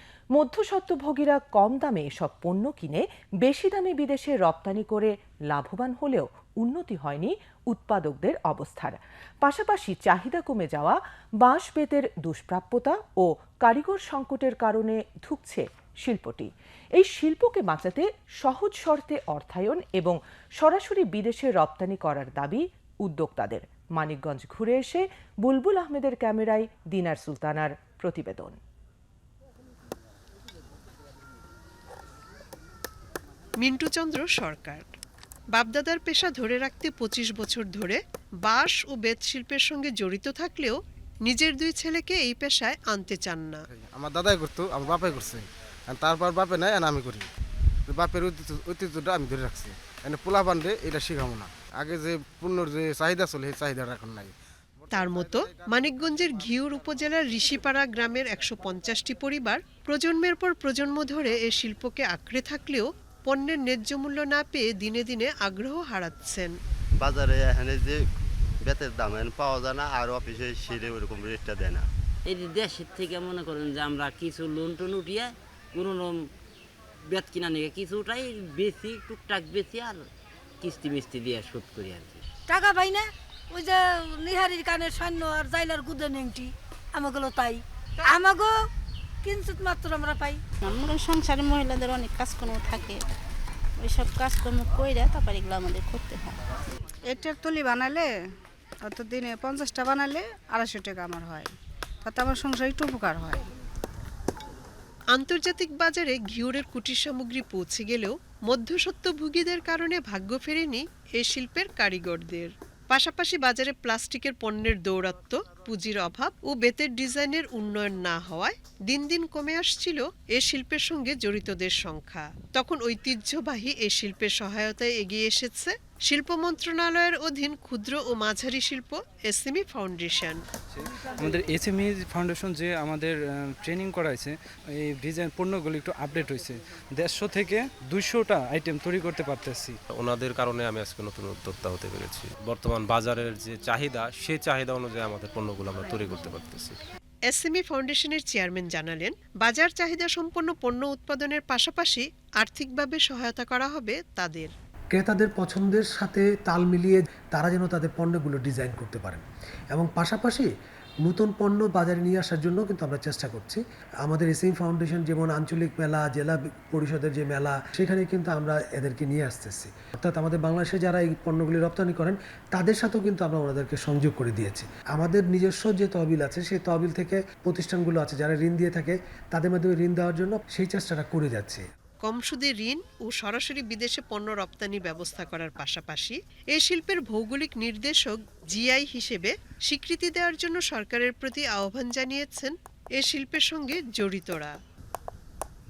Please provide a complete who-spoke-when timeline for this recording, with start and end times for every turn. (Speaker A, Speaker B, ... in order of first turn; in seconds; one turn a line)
Speaker A: 0.3-28.6
Speaker B: 33.6-34.9
Speaker B: 35.5-43.6
Speaker C: 43.7-47.3
Speaker C: 47.9-54.3
Speaker B: 54.9-66.5
Speaker C: 54.9-55.8
Speaker D: 67.0-68.0
Speaker D: 68.6-71.9
Speaker E: 72.2-76.3
Speaker E: 77.1-80.1
Speaker E: 80.6-82.2
Speaker F: 82.5-88.5
Speaker F: 89.2-90.4
Speaker G: 90.6-93.0
Speaker G: 93.8-96.3
Speaker H: 97.1-98.1
Speaker H: 98.8-101.5
Speaker H: 102.0-103.4
Speaker B: 105.1-130.4
Speaker I: 130.7-139.8
Speaker J: 139.9-146.8
Speaker B: 147.3-154.5
Speaker K: 154.9-160.5
Speaker K: 161.0-181.6
Speaker B: 182.0-194.5